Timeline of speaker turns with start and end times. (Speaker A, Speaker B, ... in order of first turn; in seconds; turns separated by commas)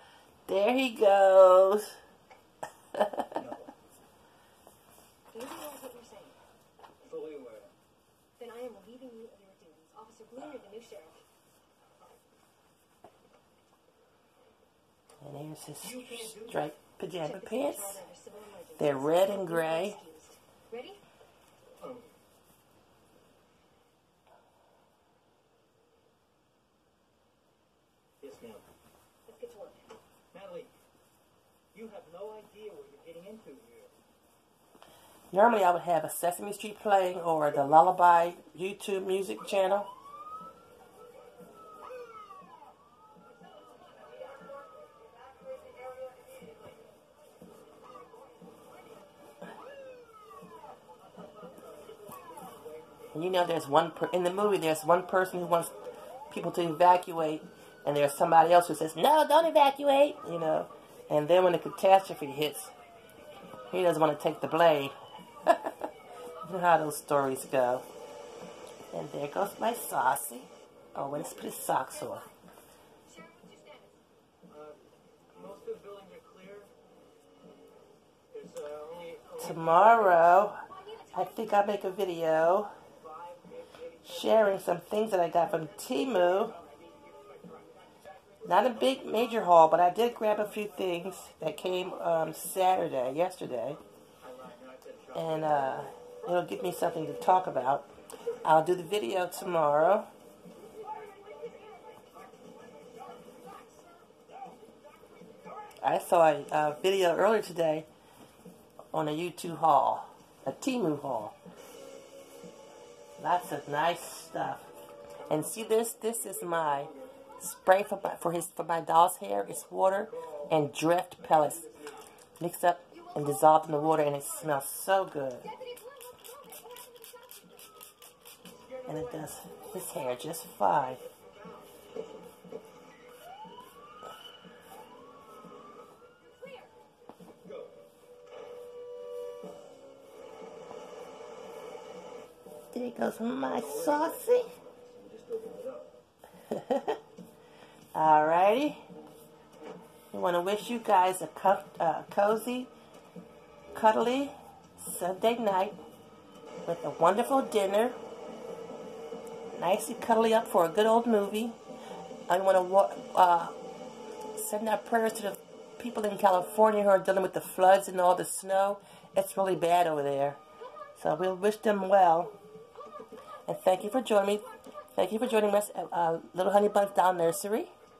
Speaker A: 0.5-2.0, Speaker A: 2.9-3.3, Speaker B: 3.3-3.7, Speaker C: 5.3-6.4, Speaker B: 7.0-7.7, Speaker C: 8.4-11.2, Speaker A: 15.2-18.0, Speaker B: 15.8-16.7, Speaker C: 17.2-21.0, Speaker A: 18.8-20.0, Speaker B: 21.8-22.1, Speaker B: 28.2-28.6, Speaker C: 29.2-29.8, Speaker B: 30.3-30.7, Speaker B: 31.7-33.9, Speaker A: 35.3-39.9, Speaker A: 53.1-55.8, Speaker A: 56.3-62.7, Speaker A: 63.7-65.7, Speaker A: 66.4-67.8, Speaker A: 68.9-72.2, Speaker B: 71.1-71.5, Speaker C: 71.7-72.4, Speaker C: 73.0-74.0, Speaker B: 74.5-76.7, Speaker B: 78.3-80.3, Speaker A: 79.4-80.6, Speaker C: 80.6-81.8, Speaker A: 81.1-82.7, Speaker B: 83.0-84.3, Speaker A: 84.0-86.5, Speaker B: 86.3-89.3, Speaker A: 88.4-93.8, Speaker B: 94.2-96.9, Speaker A: 95.1-97.9, Speaker A: 98.4-100.1, Speaker C: 100.9-102.0, Speaker B: 101.1-102.5, Speaker C: 103.3-103.8, Speaker B: 105.2-105.7, Speaker A: 105.8-107.9, Speaker A: 108.9-111.3, Speaker A: 113.2-114.7, Speaker A: 115.3-121.7, Speaker B: 116.2-117.1, Speaker B: 120.1-120.5, Speaker B: 121.3-122.0, Speaker A: 122.4-125.5, Speaker C: 122.9-124.7, Speaker C: 125.4-127.6, Speaker B: 128.6-129.3, Speaker A: 128.9-131.0, Speaker B: 130.9-131.7, Speaker C: 136.2-136.8, Speaker B: 137.4-137.7, Speaker A: 142.7-144.5, Speaker B: 143.4-146.0, Speaker A: 146.5-147.0, Speaker A: 147.9-148.8, Speaker A: 150.1-152.7, Speaker A: 153.7-155.8, Speaker A: 156.7-157.9, Speaker A: 159.5-161.6, Speaker A: 162.3-163.6, Speaker A: 164.3-170.4, Speaker A: 171.0-172.3, Speaker A: 173.4-177.7